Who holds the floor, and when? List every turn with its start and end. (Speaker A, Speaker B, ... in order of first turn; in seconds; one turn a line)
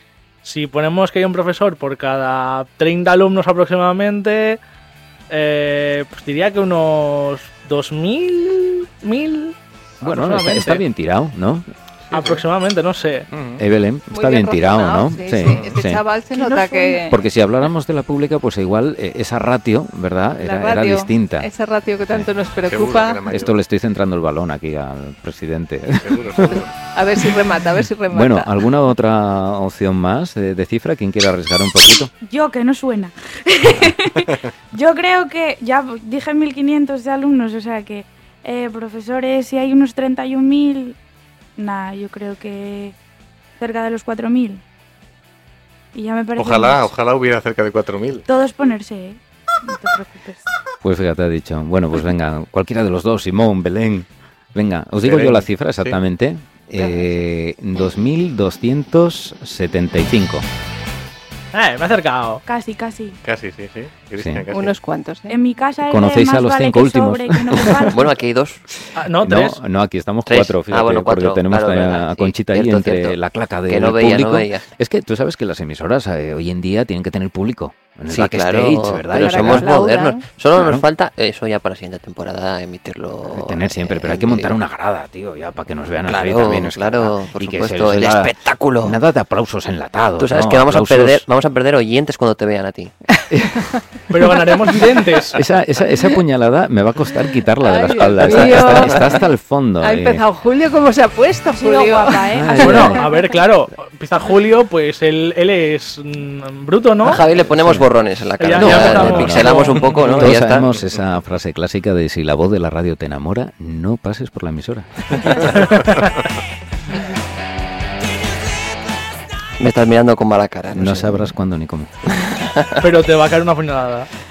Speaker A: 0.4-4.6
Speaker A: 5.3-10.8
Speaker B: 10.0-11.7
Speaker C: 12.1-12.4
Speaker A: 12.1-13.3
Speaker C: 13.3-13.6
Speaker B: 13.6-16.0
Speaker D: 14.1-17.2
Speaker C: 15.4-15.7
Speaker E: 16.3-17.1
Speaker B: 17.1-21.5
Speaker D: 20.4-23.2
Speaker C: 22.6-23.6
Speaker B: 23.3-26.6
Speaker C: 25.9-26.7
Speaker D: 26.9-28.7
Speaker B: 28.1-32.1
Speaker E: 32.2-41.0
Speaker E: 41.6-42.9
Speaker E: 43.6-44.6
Speaker E: 45.9-46.9
Speaker C: 46.4-48.3
Speaker E: 48.3-50.4
Speaker B: 50.8-60.5
Speaker C: 55.0-56.0
Speaker A: 61.5-62.4
Speaker E: 62.5-63.2
Speaker C: 63.2-64.8
Speaker B: 64.2-64.4
Speaker D: 64.5-65.4
Speaker E: 65.3-68.0
Speaker B: 65.9-67.9
Speaker F: 67.8-68.6
Speaker A: 69.0-69.6
Speaker B: 69.0-79.8
Speaker F: 70.2-74.6
Speaker F: 78.1-84.5
Speaker D: 79.1-80.2
Speaker B: 80.5-80.8
Speaker B: 83.2-91.2
Speaker F: 86.0-89.0
Speaker F: 90.2-92.9
Speaker B: 93.3-93.7
Speaker A: 94.1-95.4
Speaker B: 95.3-100.2
Speaker D: 97.6-99.3
Speaker F: 98.2-98.9
Speaker D: 99.8-103.2
Speaker E: 101.5-103.4
Speaker B: 102.3-103.0
Speaker A: 102.6-107.2
Speaker F: 107.0-110.7
Speaker B: 107.4-107.8
Speaker A: 108.4-110.3
Speaker B: 108.5-115.7
Speaker A: 115.6-116.0
Speaker F: 119.6-121.3
Speaker B: 120.7-121.9
Speaker F: 122.2-122.8
Speaker A: 122.8-124.1